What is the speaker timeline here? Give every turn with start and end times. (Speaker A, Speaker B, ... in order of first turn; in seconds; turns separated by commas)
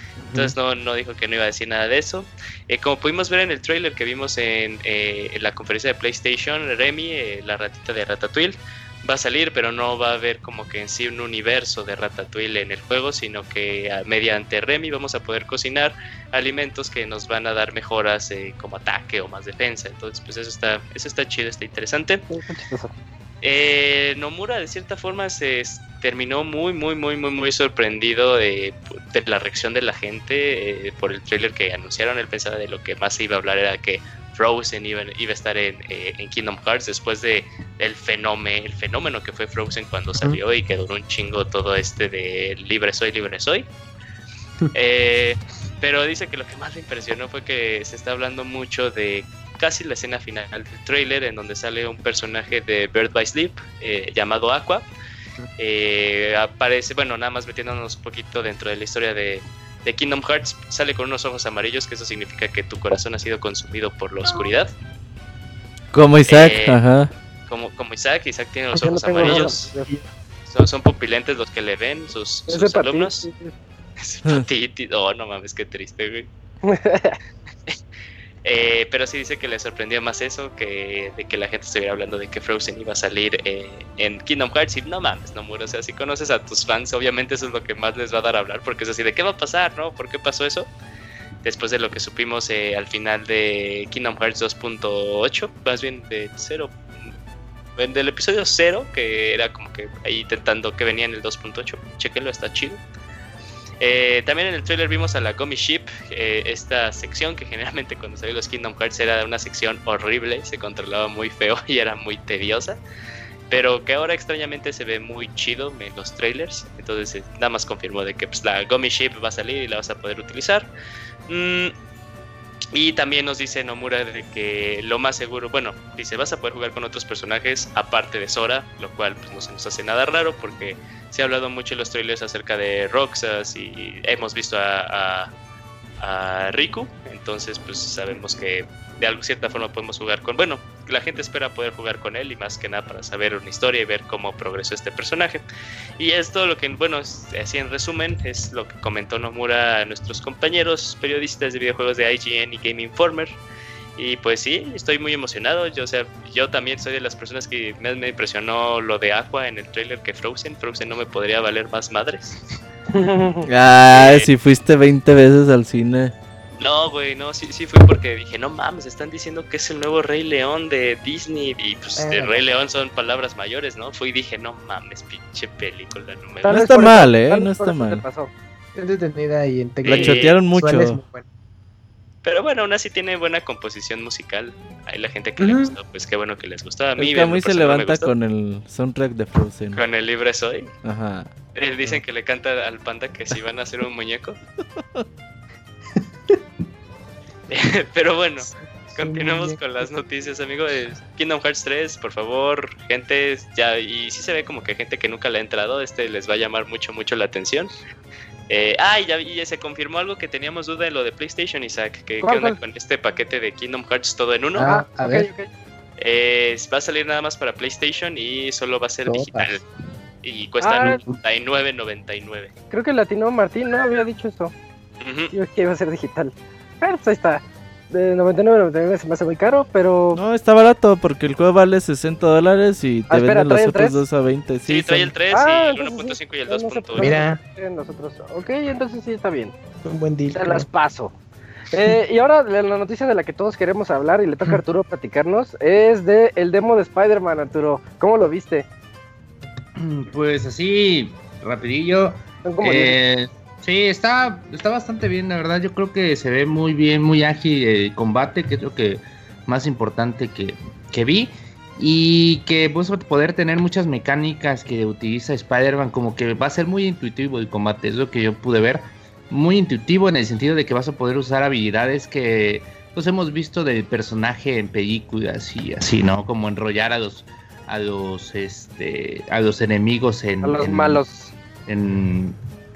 Speaker A: 0.2-0.5, Speaker B: 0.3-22.3, Speaker C: 22.3-22.9, Speaker B: 23.4-43.7, Speaker B: 44.7-54.9, Speaker B: 55.6-64.7, Speaker D: 65.9-67.1, Speaker B: 66.3-66.8, Speaker B: 67.5-69.7, Speaker C: 68.7-69.9, Speaker A: 69.2-69.5, Speaker B: 70.5-73.3, Speaker C: 72.5-73.5, Speaker B: 74.0-76.3, Speaker C: 76.6-77.2, Speaker B: 78.4-90.7, Speaker B: 91.4-96.7, Speaker B: 97.8-102.8, Speaker B: 103.8-112.8, Speaker B: 113.5-120.7, Speaker B: 121.3-121.7, Speaker B: 122.7-135.3, Speaker B: 136.0-145.4, Speaker B: 146.0-153.3, Speaker B: 154.0-162.4, Speaker C: 162.9-163.4, Speaker D: 163.4-166.1, Speaker B: 163.9-164.3, Speaker B: 166.6-176.7, Speaker A: 172.0-172.4, Speaker D: 176.5-178.0, Speaker C: 176.5-178.3, Speaker A: 178.7-181.2, Speaker B: 179.8-180.4, Speaker D: 179.8-181.0, Speaker B: 182.2-188.1, Speaker A: 185.4-185.7, Speaker D: 187.0-189.8, Speaker B: 189.7-190.7, Speaker D: 190.8-191.3, Speaker B: 191.5-194.4, Speaker D: 194.8-195.0, Speaker B: 197.5-207.7, Speaker A: 198.4-199.6, Speaker B: 208.5-214.7, Speaker C: 212.2-212.6, Speaker A: 214.5-215.3, Speaker C: 214.6-215.5, Speaker B: 216.0-219.6, Speaker A: 219.1-219.6, Speaker B: 220.2-222.5, Speaker C: 220.6-221.0, Speaker C: 222.7-224.5, Speaker B: 225.0-225.3, Speaker C: 225.3-230.2, Speaker D: 230.1-235.1, Speaker C: 233.1-234.0, Speaker B: 234.7-237.2, Speaker C: 235.3-239.5, Speaker A: 236.9-237.4, Speaker A: 239.8-240.7, Speaker C: 240.3-241.1, Speaker C: 241.7-248.7, Speaker E: 249.8-281.0, Speaker C: 252.4-253.0, Speaker C: 280.4-281.3, Speaker E: 281.6-282.4